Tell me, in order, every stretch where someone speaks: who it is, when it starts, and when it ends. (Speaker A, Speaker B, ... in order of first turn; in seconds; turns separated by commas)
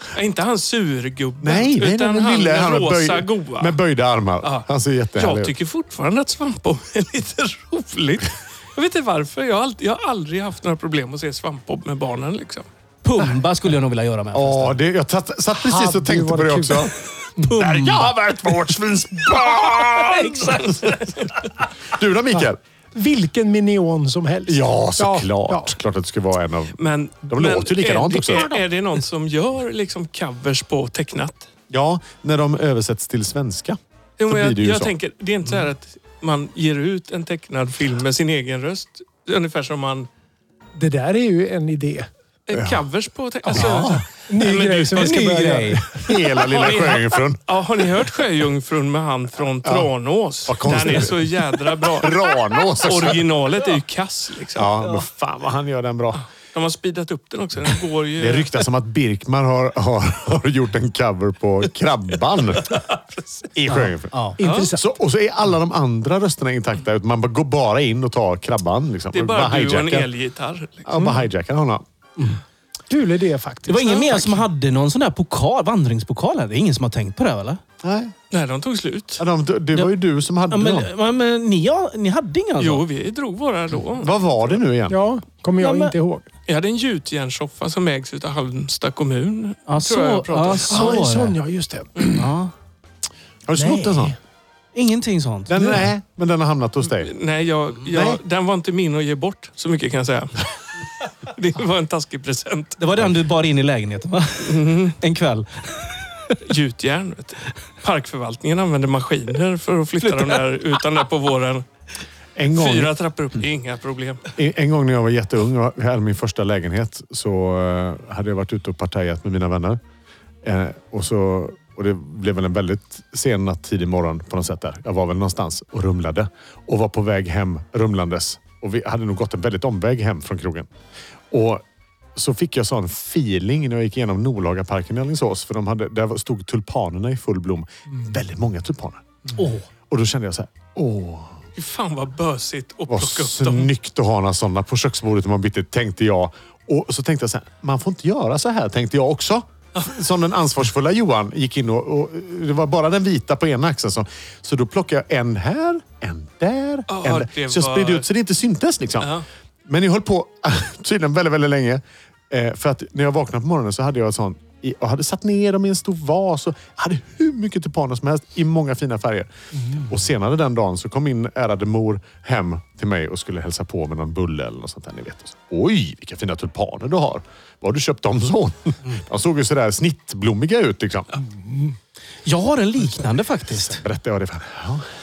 Speaker A: 0.1-3.8, Speaker B: 1.4-5.5, Speaker A: 4.4-12.7, Speaker C: 13.0-14.8, Speaker B: 14.3-16.9, Speaker D: 15.6-17.5, Speaker C: 17.4-18.1, Speaker B: 17.6-21.0, Speaker C: 19.8-21.0, Speaker A: 20.6-21.3, Speaker B: 21.9-22.6, Speaker D: 22.3-25.7, Speaker B: 24.5-28.5, Speaker A: 26.8-31.5, Speaker B: 31.7-34.9, Speaker A: 34.2-40.1, Speaker D: 40.8-42.1, Speaker A: 42.5-45.3, Speaker B: 42.5-42.8, Speaker B: 43.5-44.0, Speaker D: 44.3-46.0, Speaker C: 44.9-45.8, Speaker B: 46.0-47.4, Speaker A: 46.3-54.7, Speaker B: 49.6-49.9, Speaker B: 50.5-53.4, Speaker B: 54.5-56.2, Speaker A: 56.2-58.6, Speaker B: 58.2-62.8, Speaker A: 62.6-63.5, Speaker B: 63.5-70.1, Speaker C: 63.7-64.4, Speaker D: 64.4-64.8, Speaker A: 64.4-64.7, Speaker A: 69.1-71.2, Speaker B: 70.8-71.8, Speaker D: 72.9-74.4, Speaker C: 73.7-77.6, Speaker B: 77.8-78.1, Speaker A: 78.3-79.2, Speaker B: 79.2-80.9, Speaker C: 80.5-82.8, Speaker A: 82.6-84.6, Speaker B: 84.0-85.0, Speaker D: 84.9-86.3, Speaker C: 85.6-85.9, Speaker A: 86.5-91.0, Speaker C: 89.7-91.4, Speaker D: 90.7-92.3, Speaker C: 92.1-92.5, Speaker B: 93.5-94.2, Speaker D: 93.5-94.2, Speaker C: 94.7-95.8, Speaker B: 95.5-97.1, Speaker D: 95.6-95.8, Speaker A: 96.9-100.5, Speaker B: 97.8-98.2, Speaker A: 101.2-102.8, Speaker C: 102.8-106.3, Speaker A: 104.4-105.0, Speaker A: 106.4-111.6, Speaker C: 110.0-110.4, Speaker B: 112.3-112.9, Speaker A: 112.5-114.2, Speaker B: 114.3-119.8, Speaker B: 120.4-130.7, Speaker B: 131.3-131.6, Speaker B: 132.1-139.1, Speaker C: 139.3-139.7, Speaker B: 139.9-141.4, Speaker A: 141.6-143.7, Speaker B: 142.9-159.1, Speaker A: 156.9-158.1, Speaker A: 159.0-159.2, Speaker B: 159.7-181.1, Speaker D: 181.3-181.7, Speaker C: 182.2-183.8, Speaker B: 183.7-184.8